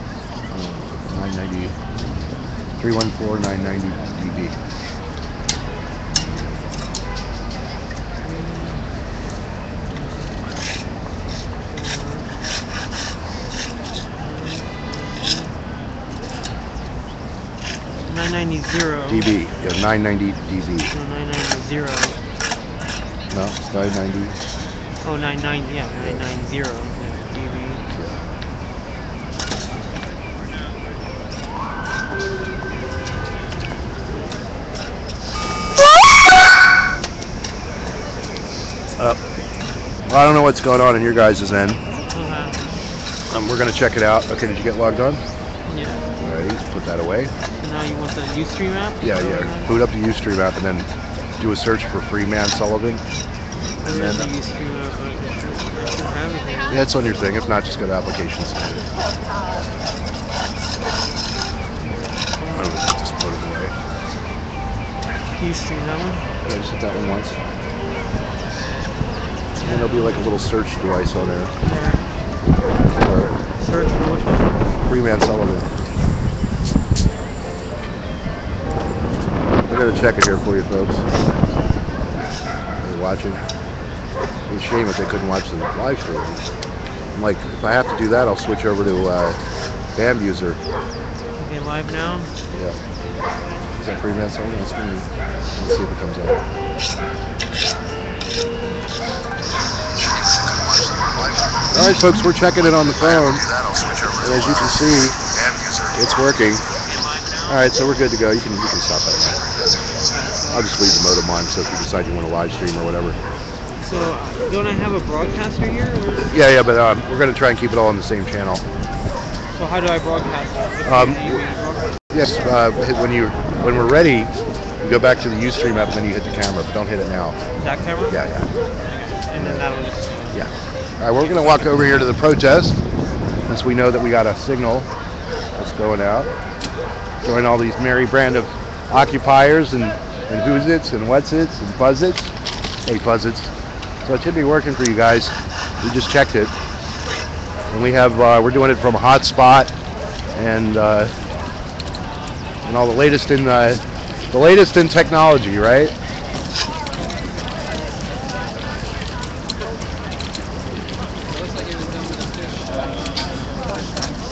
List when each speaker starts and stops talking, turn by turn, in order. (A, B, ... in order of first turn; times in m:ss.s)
0:00.5-0:01.7 A
0:02.8-0:04.5 A
0:06.1-0:06.5 B
0:08.2-0:08.8 B
0:09.9-0:10.3 B
0:11.7-0:12.3 B
0:14.2-0:15.5 B
0:18.1-0:19.4 B
0:19.1-0:20.9 A
0:20.9-0:22.2 B
0:23.3-0:24.4 A
0:25.0-0:27.8 B
0:40.1-0:41.8 A
0:42.1-0:42.6 B
0:43.3-0:45.2 A
0:45.7-0:46.0 B
0:46.2-0:47.3 A
0:47.6-0:49.8 B
0:49.0-0:50.9 A
0:51.4-0:53.0 A
0:53.8-0:54.3 A
0:53.8-0:56.8 B
0:56.7-0:58.8 A
1:02.4-1:02.8 B
1:02.5-1:03.7 A
1:05.3-1:06.2 B
1:06.4-1:07.4 A
1:09.6-1:11.5 A
1:11.6-1:12.0 B
1:13.0-1:13.3 A
1:13.6-1:14.5 B
1:14.9-1:15.7 A
1:19.6-1:21.0 A
1:22.8-1:23.4 A
1:24.5-1:26.4 A
1:27.2-1:29.4 A
1:30.0-1:30.6 A
1:31.4-1:32.3 B
1:33.8-1:35.1 A
1:35.6-1:36.4 A
1:41.7-1:43.4 A
1:44.2-1:45.2 A
1:45.9-1:46.6 A
1:47.5-1:49.4 A
1:50.2-1:50.7 B
1:50.5-1:53.2 A
1:53.8-1:56.3 B
1:56.3-1:58.6 A
1:59.6-2:01.9 B
2:00.8-2:01.4 A
2:02.1-2:07.4 A
2:07.6-2:08.2 B
2:08.1-2:08.5 A
2:09.3-2:10.4 B
2:09.4-2:09.6 A
2:10.3-2:12.8 A
2:13.5-2:14.9 A
2:15.6-2:16.3 A
2:17.2-2:22.3 A
2:22.8-2:23.5 A
2:24.0-2:26.5 A
2:27.7-2:29.7 A
2:30.4-2:31.1 A
2:32.7-2:35.9 A